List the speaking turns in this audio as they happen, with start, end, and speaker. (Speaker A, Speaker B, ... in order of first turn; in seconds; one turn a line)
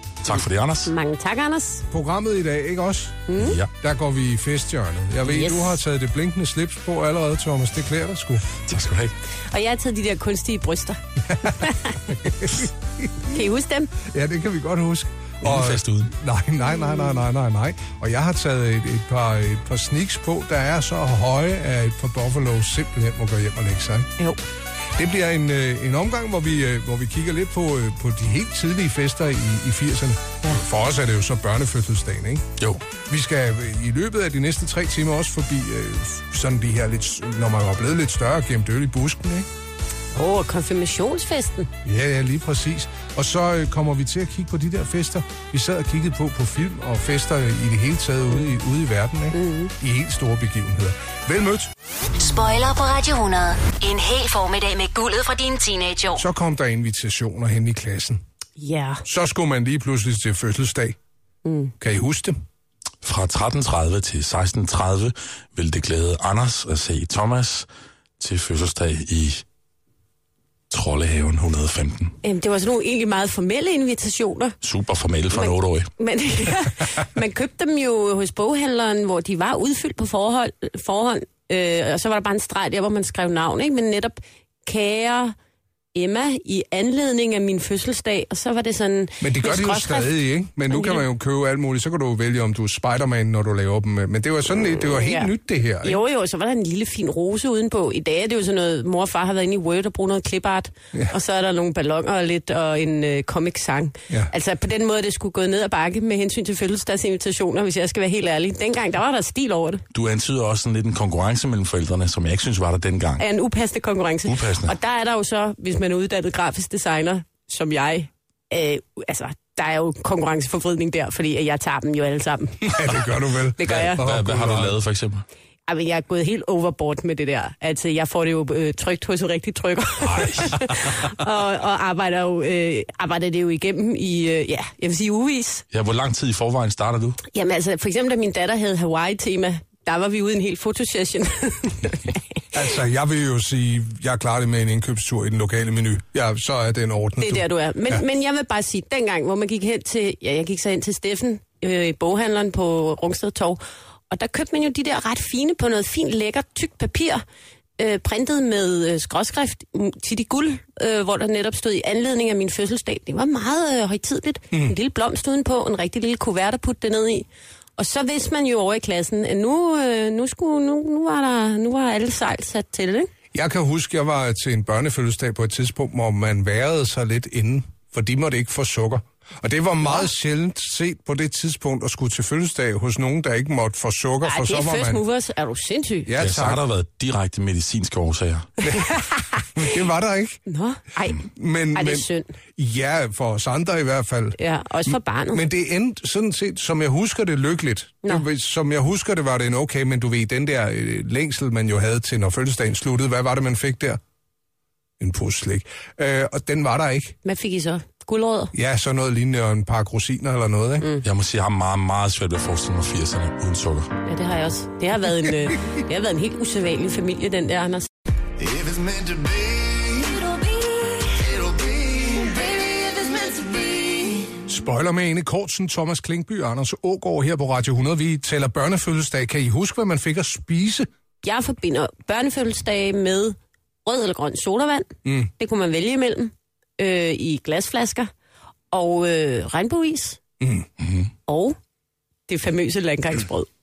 Speaker A: 0.2-0.9
Speaker B: 0.8-1.8
Speaker C: 1.9-8.5
Speaker B: 3.3-3.6
Speaker A: 3.4-3.7
Speaker B: 5.2-5.8
Speaker A: 8.7-9.1
Speaker B: 9.5-12.0
Speaker C: 11.2-13.1
Speaker B: 13.3-13.9
Speaker C: 14.0-24.1
Speaker A: 15.4-16.1
Speaker C: 25.0-39.5
Speaker B: 40.1-41.7
Speaker C: 41.8-51.7
Speaker B: 49.3-49.7
Speaker D: 52.2-56.2
Speaker C: 56.1-58.2
Speaker B: 58.6-59.0
Speaker C: 59.0-61.0
Speaker B: 61.4-61.7
Speaker C: 61.8-62.4
Speaker A: 63.0-67.7
Speaker A: 68.2-69.4
Speaker A: 70.7-72.2
Speaker B: 72.2-74.5
Speaker A: 74.6-75.9
Speaker B: 75.3-85.3
Speaker B: 85.9-90.1
Speaker C: 89.2-96.0
Speaker B: 90.7-91.0
Speaker B: 94.9-109.8
Speaker A: 109.9-113.2
Speaker B: 113.2-122.8
Speaker A: 114.2-114.7
Speaker C: 122.7-124.7
Speaker B: 123.5-124.0
Speaker A: 123.7-125.2
Speaker B: 125.7-135.6
Speaker C: 130.0-130.9
Speaker A: 135.7-137.2
Speaker B: 137.3-142.2
Speaker C: 142.5-148.0
Speaker B: 147.2-157.2
Speaker B: 157.8-167.2
Speaker B: 167.8-173.1
Speaker C: 173.3-185.0
Speaker B: 184.2-186.1
Speaker C: 186.1-186.6
Speaker A: 186.2-188.5
Speaker B: 188.6-189.4
Speaker C: 189.5-190.4
Speaker B: 190.4-192.3
Speaker C: 191.2-194.4
Speaker B: 194.4-195.4
Speaker C: 195.3-204.0
Speaker C: 205.0-207.2
Speaker B: 207.2-208.5
Speaker C: 208.5-210.9
Speaker A: 211.0-213.9
Speaker B: 214.0-217.9
Speaker E: 218.4-220.0
Speaker B: 219.9-221.2
Speaker E: 221.2-224.3
Speaker B: 222.8-224.2
Speaker C: 224.4-230.9
Speaker B: 231.2-238.1
Speaker B: 238.7-240.2
Speaker C: 240.4-240.7
Speaker A: 240.8-241.1
Speaker B: 241.3-241.6
Speaker B: 242.3-243.5